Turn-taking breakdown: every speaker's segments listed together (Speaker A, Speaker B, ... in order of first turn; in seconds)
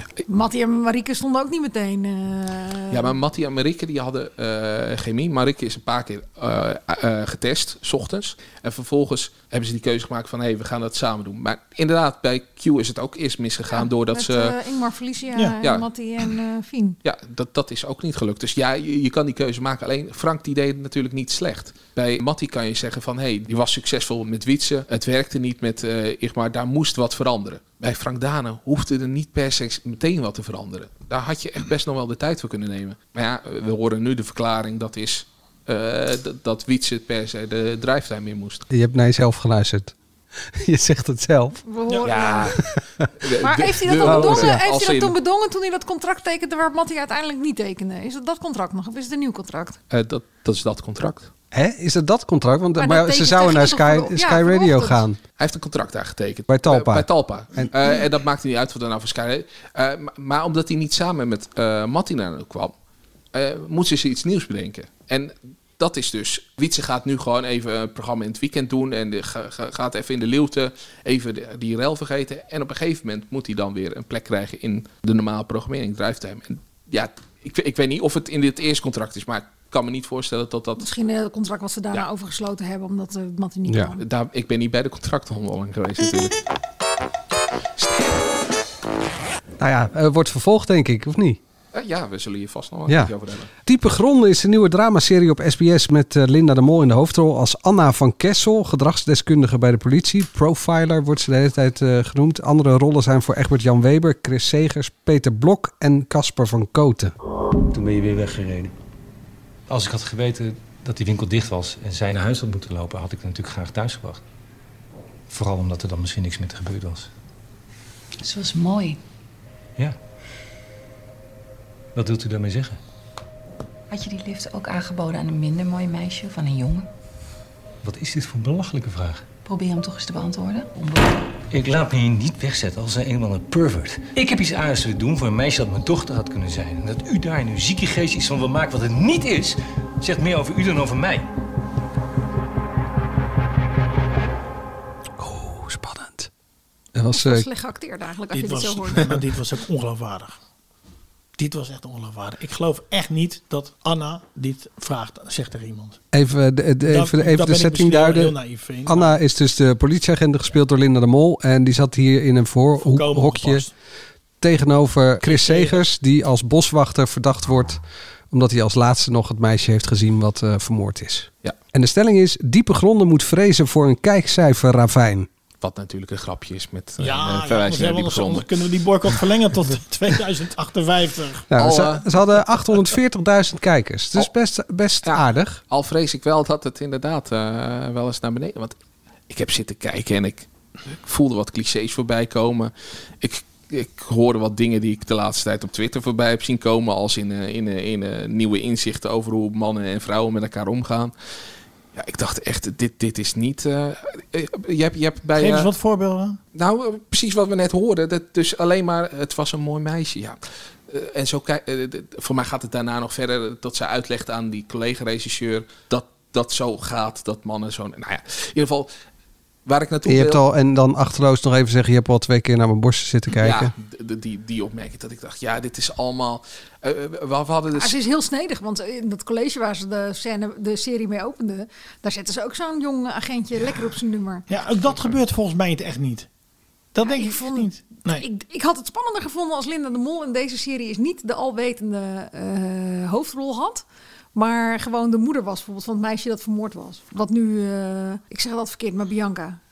Speaker A: 0.3-3.1, 13.7-17.0, 41.6-42.5, 43.4-49.8, 52.8-55.0, 80.8-84.0, 147.1-149.2, 227.7-234.5, 237.0-243.8, 244.3-249.6
Speaker B: 2.9-14.6, 17.0-38.7, 42.0-42.6, 43.2-45.1, 49.9-51.3, 55.4-62.7, 63.3-80.9, 84.0-86.4, 91.7-93.5, 175.6-179.2, 181.6-182.3, 185.0-188.8, 189.3-201.1, 201.9-205.7, 206.6-218.9, 219.7-220.4, 223.3-228.0
Speaker C: 38.7-39.9, 40.5-41.6, 42.8-43.1, 44.0-44.6, 51.5-55.2, 56.5-57.7, 89.6-91.4, 93.7-107.1, 145.2-146.3, 146.9-147.5, 156.1-163.7, 164.4-175.3, 181.5-185.6, 220.1-223.7
Speaker D: 107.7-108.7, 109.7-114.2, 115.3-117.1, 122.0-122.8, 127.8-129.3, 131.5-141.3
Speaker E: 118.2-119.0, 123.9-126.9, 129.4-131.4
Speaker F: 148.3-150.4, 151.4-156.0, 156.9-159.2, 162.8-163.7, 165.2-165.8, 177.0-181.5, 205.4-206.4, 234.5-236.3, 236.9-238.2